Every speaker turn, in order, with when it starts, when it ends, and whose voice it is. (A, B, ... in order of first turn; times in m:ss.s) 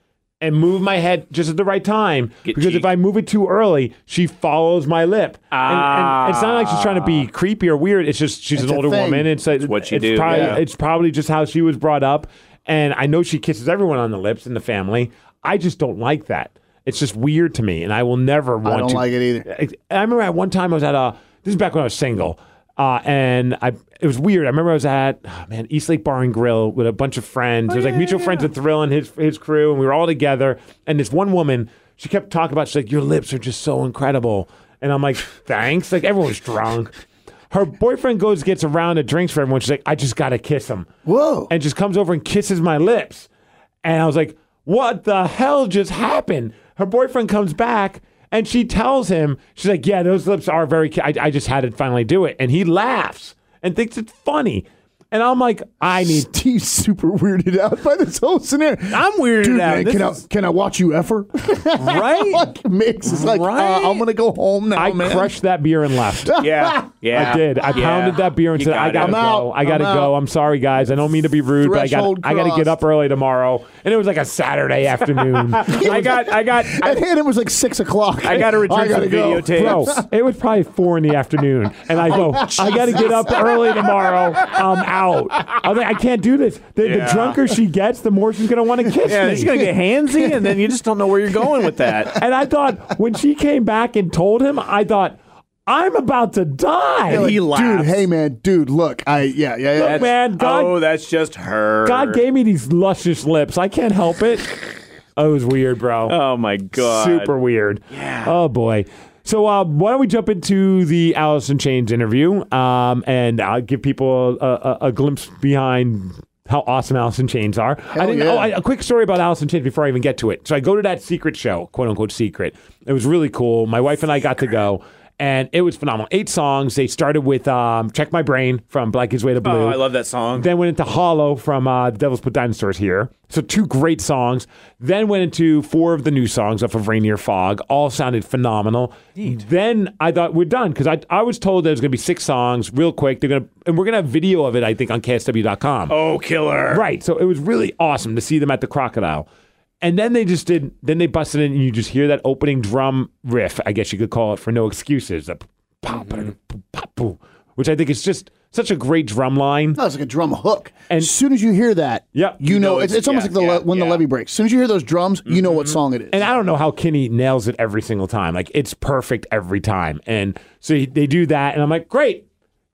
0:00.4-0:36.9 A
0:02.4-0:02.8 B
0:05.5-0:07.3 B
0:08.6-0:09.3 C
0:09.6-0:10.6 B
0:10.2-0:10.6 C
0:18.6-0:19.5 C
0:27.7-0:28.5 B
0:37.5-0:40.9 A
0:41.0-0:41.5 C
0:41.5-0:43.3 A
0:43.8-0:56.2 A
0:55.9-1:05.3 C
0:58.9-1:00.2 B
1:01.8-1:02.5 B
1:03.0-1:04.0 B
1:04.7-1:06.4 A
1:06.1-1:06.8 C
1:06.4-1:09.2 B
1:07.1-1:16.2 A
1:09.0-1:10.1 C
1:11.6-1:12.8 C
1:15.5-1:17.0 B
1:15.7-1:20.0 C
1:18.2-1:19.9 B
1:19.5-1:29.5 A
1:22.0-1:24.2 C
1:22.7-1:23.2 B
1:26.8-1:27.4 B
1:29.0-1:32.2 B
1:29.2-1:30.6 C
1:31.4-1:31.9 C
1:32.2-1:37.3 A
1:37.1-1:38.0 B
1:37.1-1:40.1 C
1:39.8-1:40.8 A
1:39.8-1:42.2 B
1:41.8-1:44.6 A
1:45.2-1:46.2 A
1:46.1-1:47.3 B
1:46.7-2:09.8 A
1:47.9-1:48.3 B
1:57.9-1:58.5 C
2:09.4-2:10.5 B
2:10.3-2:26.0 A
2:19.2-2:19.4 B
2:25.9-2:26.8 B
2:26.7-2:29.2 A
2:29.8-2:39.8 A
2:39.8-2:46.2 C
2:42.1-2:43.2 A
2:42.6-2:44.0 B
2:45.3-2:45.6 B
2:46.1-2:52.2 A